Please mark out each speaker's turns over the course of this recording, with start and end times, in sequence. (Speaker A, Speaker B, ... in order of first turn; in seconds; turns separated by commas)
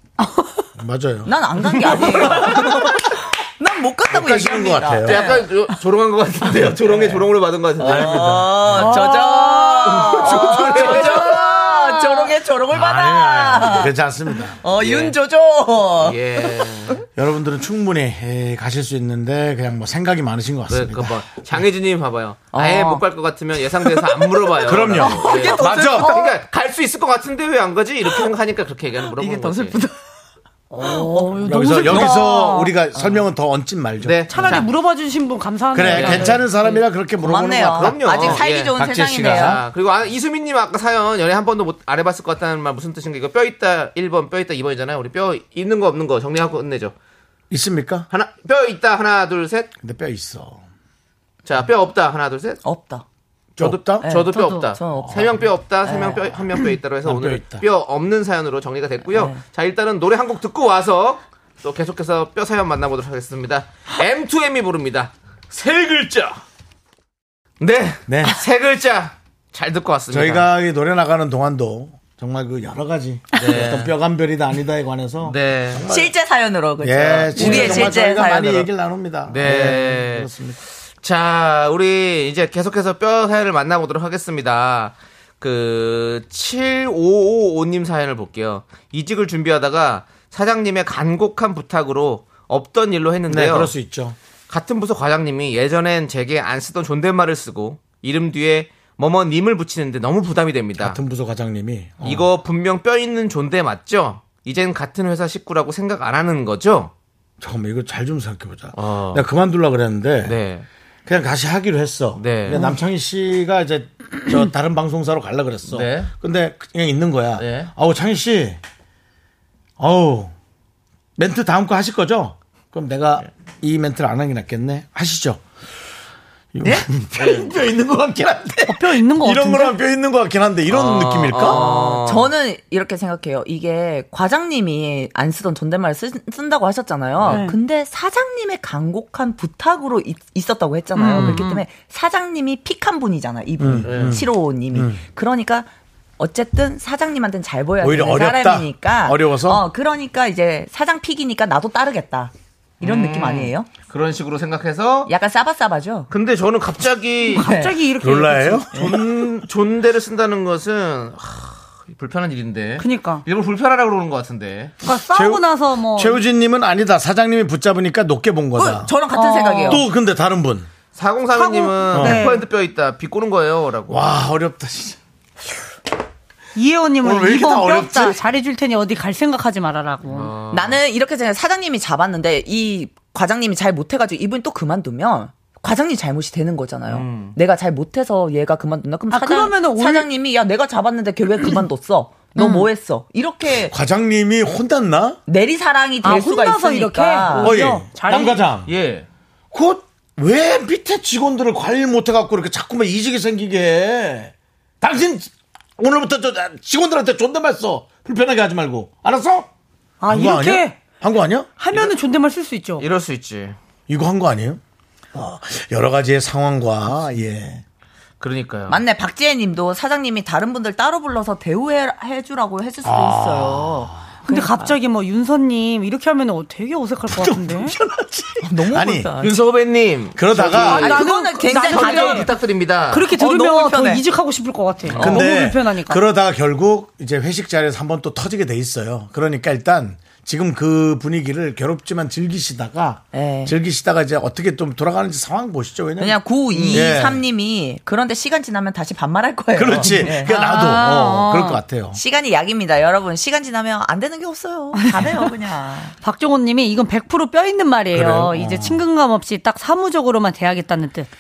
Speaker A: 0.2-0.6, Speaker B: 0.8-2.5, Speaker C: 1.2-5.6, Speaker A: 1.7-3.0, Speaker B: 4.1-5.2, Speaker D: 5.0-8.4, Speaker B: 6.7-7.3, Speaker C: 7.8-13.9, Speaker B: 7.8-9.0, Speaker A: 8.7-11.4, Speaker D: 9.9-11.5, Speaker B: 12.7-14.6, Speaker C: 14.4-17.0, Speaker D: 14.8-15.2, Speaker D: 16.0-17.0, Speaker B: 17.2-21.3, Speaker D: 20.7-29.8, Speaker C: 22.5-23.1, Speaker C: 24.3-26.3, Speaker B: 24.6-26.2, Speaker A: 25.3-26.1, Speaker C: 29.2-29.9, Speaker A: 30.7-32.7, Speaker C: 31.1-32.4, Speaker B: 31.4-34.6, Speaker D: 34.0-34.7, Speaker A: 34.3-36.9, Speaker B: 35.7-39.6, Speaker D: 35.9-36.4, Speaker C: 37.2-39.6, Speaker D: 37.7-46.9, Speaker B: 47.5-48.1, Speaker D: 48.1-49.7, Speaker B: 49.8-50.6, Speaker D: 51.5-52.6, Speaker C: 52.6-53.0, Speaker D: 53.6-66.4, Speaker B: 53.6-54.1, Speaker C: 54.0-56.3, Speaker A: 54.3-54.7, Speaker B: 55.0-55.3, Speaker B: 57.0-57.6, Speaker C: 59.1-59.4, Speaker D: 67.6-70.5, Speaker B: 68.1-68.4, Speaker B: 70.1-76.1, Speaker D: 73.3-73.9, Speaker D: 75.2-75.8, Speaker C: 75.9-78.7, Speaker B: 76.8-80.6, Speaker D: 77.3-78.0, Speaker D: 79.3-80.3, Speaker D: 81.0-93.7, Speaker B: 93.3-94.2, Speaker D: 94.5-101.0, Speaker B: 100.8-102.3, Speaker D: 102.0-106.9, Speaker B: 107.4-110.4, Speaker D: 108.7-109.2, Speaker D: 110.2-110.7, Speaker B: 111.1-118.6, Speaker D: 112.2-112.7, Speaker D: 115.7-116.1, Speaker D: 117.4-117.7, Speaker B: 119.8-120.3, Speaker B: 121.2-125.4, Speaker B: 126.5-131.6, Speaker D: 127.2-127.5, Speaker A: 128.7-129.8, Speaker D: 130.7-132.3, Speaker C: 131.4-145.7, Speaker A: 137.3-137.6, Speaker A: 140.9-141.7, Speaker B: 143.6-145.0, Speaker D: 143.8-144.2, Speaker C: 146.2-153.7, Speaker B: 147.8-149.6, Speaker D: 152.8-155.1, Speaker C: 155.1-156.1, Speaker D: 156.1-157.5, Speaker A: 157.3-158.7, Speaker C: 157.4-157.9, Speaker B: 158.0-159.2, Speaker D: 158.7-164.7, Speaker A: 162.8-163.2, Speaker A: 164.8-166.2, Speaker B: 165.1-168.9, Speaker C: 168.6-169.8, Speaker A: 169.1-169.8, Speaker B: 169.7-170.7, Speaker D: 170.9-174.1, Speaker A: 171.3-172.4, Speaker B: 171.9-172.2, Speaker B: 173.9-175.0, Speaker A: 176.6-180.3, Speaker B: 177.0-178.2, Speaker D: 180.1-180.8, Speaker C: 180.5-193.7, Speaker D: 186.9-187.4, Speaker A: 189.1-190.1, Speaker A: 192.4-192.7, Speaker B: 193.7-195.2, Speaker C: 195.3-197.6, Speaker A: 196.0-198.4, Speaker B: 197.4-198.7, Speaker D: 198.7-199.1, Speaker B: 199.5-209.5, Speaker A: 210.0-210.8, Speaker B: 210.1-211.9, Speaker A: 211.6-212.8, Speaker D: 212.8-213.6, Speaker B: 213.9-214.6, Speaker B: 215.1-217.6, Speaker D: 218.2-218.8, Speaker C: 218.7-224.8, Speaker B: 222.8-224.1, Speaker A: 224.2-227.8, Speaker B: 227.1-229.1, Speaker C: 228.4-229.4, Speaker D: 229.2-231.0, Speaker B: 230.2-230.9, Speaker A: 230.5-232.3, Speaker C: 230.5-232.3, Speaker D: 231.6-233.1, Speaker A: 232.9-236.0, Speaker C: 233.1-234.0, Speaker B: 234.9-247.2, Speaker C: 235.0-235.3, Speaker C: 243.1-243.5, Speaker C: 246.0-250.4, Speaker D: 246.5-246.9, Speaker B: 249.5-252.0, Speaker A: 249.8-251.6, Speaker C: 251.9-255.9, Speaker A: 254.7-255.3, Speaker A: 256.0-261.1, Speaker B: 257.9-258.8